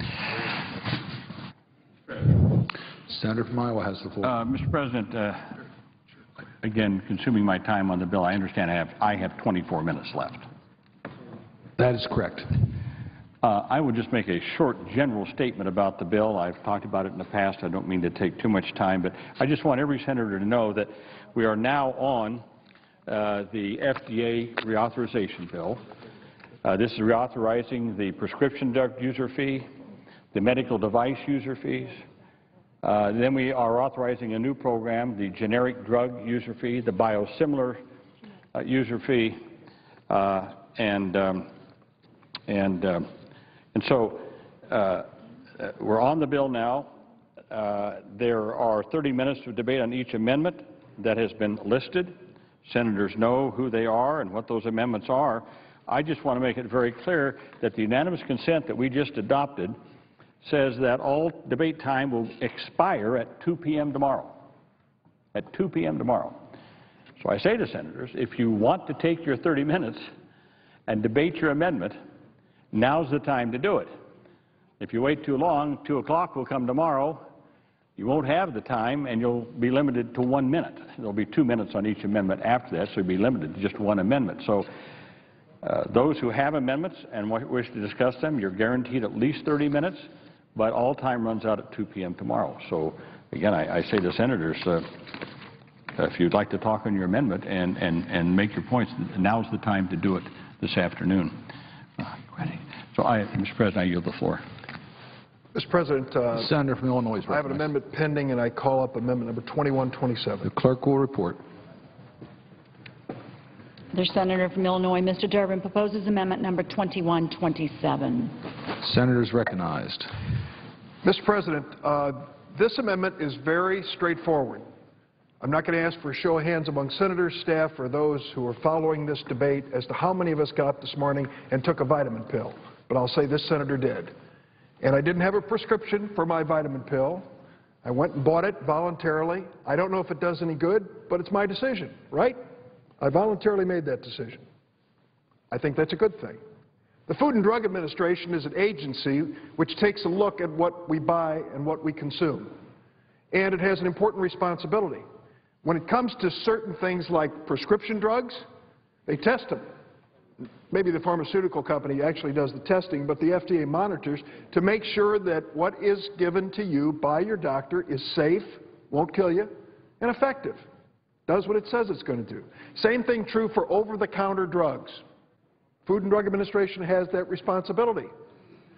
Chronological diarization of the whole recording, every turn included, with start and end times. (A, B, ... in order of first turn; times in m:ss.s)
0:03.1-0:04.4 A
0:04.2-0:05.6 B
0:06.6-0:10.4 B
0:11.8-0:12.6 A
0:13.4-0:22.4 B
0:23.0-0:25.8 B
0:26.6-0:29.7 B
0:30.3-0:32.0 B
0:32.8-0:37.8 B
0:38.5-0:39.4 B
0:40.1-0:41.5 B
0:42.5-0:43.1 B
0:43.7-0:46.9 B
0:47.5-0:59.8 B
1:00.4-1:04.4 B
1:05.3-1:06.4 B
1:07.2-1:10.0 B
1:10.9-1:12.0 B
1:12.7-1:13.9 B
1:14.8-1:17.2 B
1:18.0-1:24.7 B
1:25.6-1:35.2 B
1:35.9-1:41.4 B
1:42.0-1:44.4 B
1:45.5-1:46.5 C
1:46.4-1:47.7 A
1:47.2-1:50.5 C
1:50.4-1:51.4 A
1:53.9-1:58.5 D
1:58.7-2:00.1 A
2:01.0-2:04.6 C
2:05.4-2:14.1 C
2:14.8-2:17.3 C
2:17.8-2:22.4 C
2:23.0-2:24.4 C
2:25.5-2:26.4 C
2:27.1-2:32.5 C
2:33.3-2:35.0 C
2:35.6-2:38.4 C
2:39.0-2:39.7 C
2:40.7-2:50.6 C
2:51.3-2:55.0 C
2:55.8-2:58.1 C